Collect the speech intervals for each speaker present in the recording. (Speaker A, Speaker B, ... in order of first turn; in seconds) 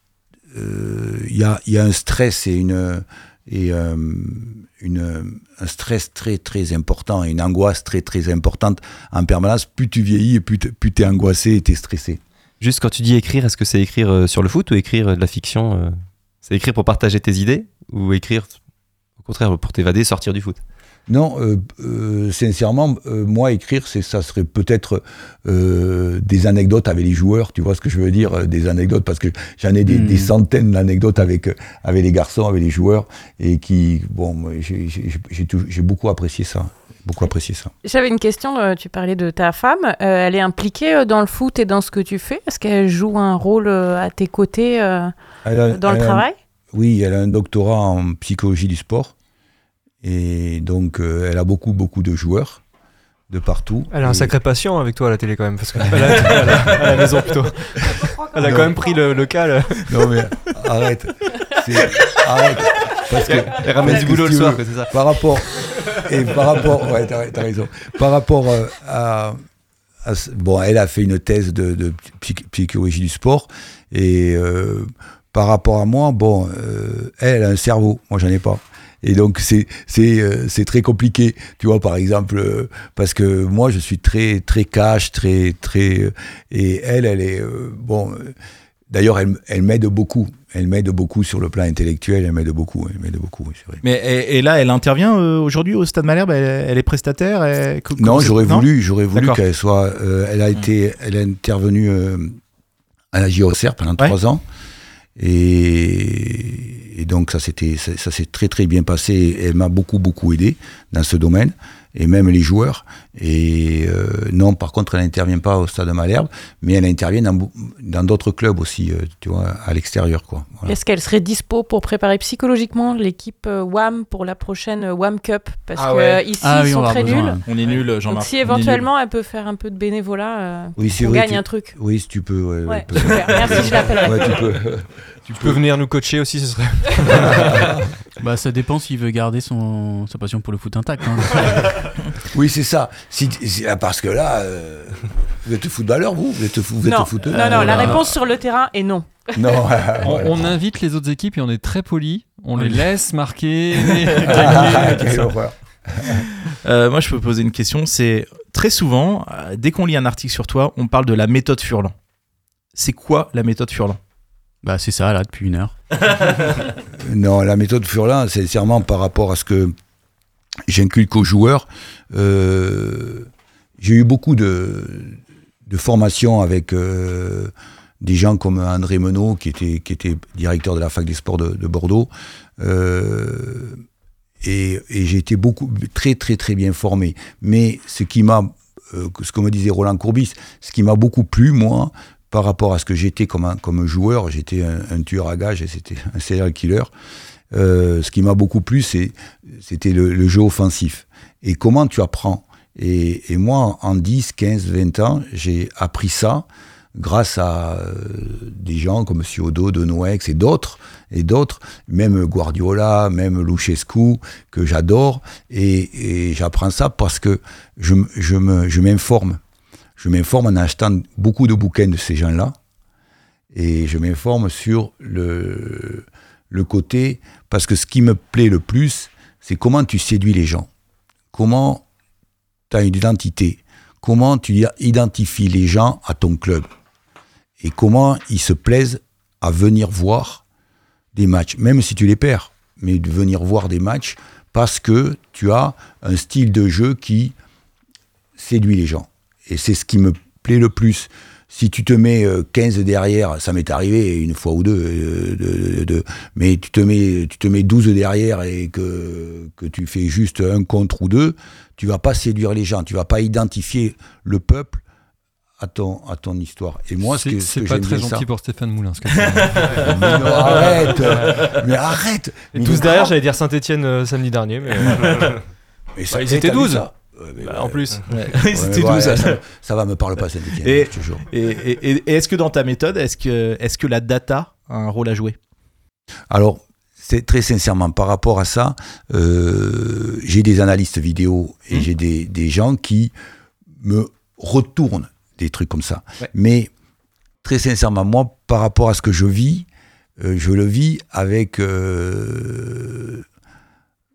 Speaker A: 0.5-12.2, 21.1-37.7, 45.5-49.1, 50.0-52.6, 53.3-54.4, 55.9-56.1, 58.4-58.8, 59.9-69.4, 70.0-88.4, 88.9-93.8, 98.0-102.4, 103.1-104.4, 105.2-120.8, 130.8-135.6, 137.1-137.7, 142.3-148.1, 149.3-150.6, 154.2-156.3, 166.9-169.7, 170.7-173.3, 173.8-183.8, 184.4-196.9, 197.5-219.4, 220.0-222.6, 223.5-230.7, 231.3-231.8, 232.7-236.7, 237.6-240.4, 241.1-247.4, 248.4-264.8, 265.6-268.3, 269.8-273.1, 276.0-281.3, 286.3-293.1, 293.8-296.7, 297.4-299.7, 300.2-303.2
Speaker B: 12.6-18.6, 19.2-20.6, 63.1-65.0
Speaker C: 29.9-30.3, 126.4-127.4, 138.2-141.7, 164.6-165.7
Speaker D: 37.8-45.1, 45.7-46.4, 58.0-59.3, 120.7-127.4, 128.1-131.8, 132.7-134.5, 146.8-149.5
Speaker E: 53.9-59.9, 135.3-137.8, 272.5-275.4, 276.1-276.9, 277.4-278.1
Speaker F: 93.8-99.4, 125.8-126.2, 127.5-128.9, 147.3-148.0, 156.6-161.9, 162.8-164.0, 269.4-271.6, 274.9-275.3, 278.1-279.4, 280.6-285.4
Speaker G: 150.0-155.3, 267.0-269.8